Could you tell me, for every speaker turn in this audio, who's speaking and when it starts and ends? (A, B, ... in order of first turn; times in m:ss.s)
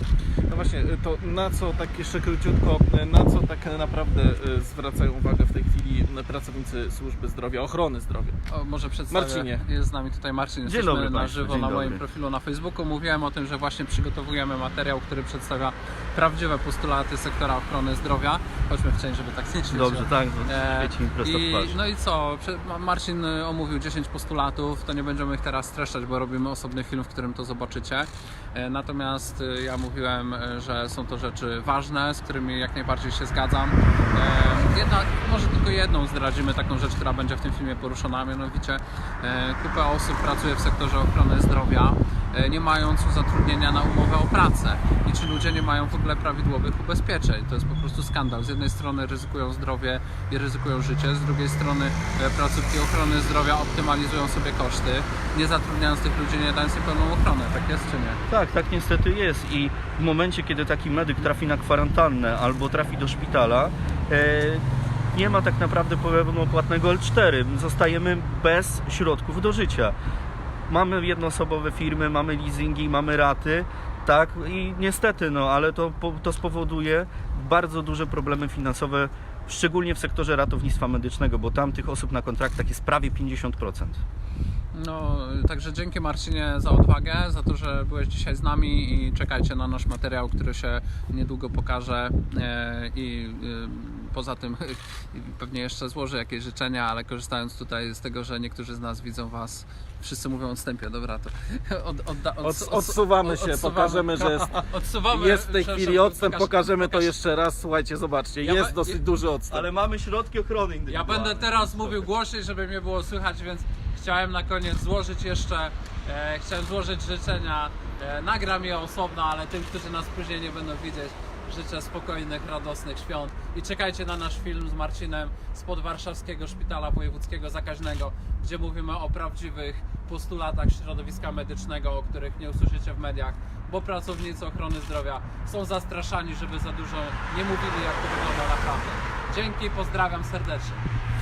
0:00.5-0:08.4 A
0:08.5-0:58.2 B
0:09.1-0:09.6 A
0:10.6-0:12.0 C
0:19.7-0:21.8 C
0:58.3-1:10.0 C
1:10.7-1:24.0 C
1:24.7-1:47.1 B
1:42.4-1:49.7 A
1:48.4-1:49.0 B
1:49.5-1:52.0 C
1:50.9-2:20.8 B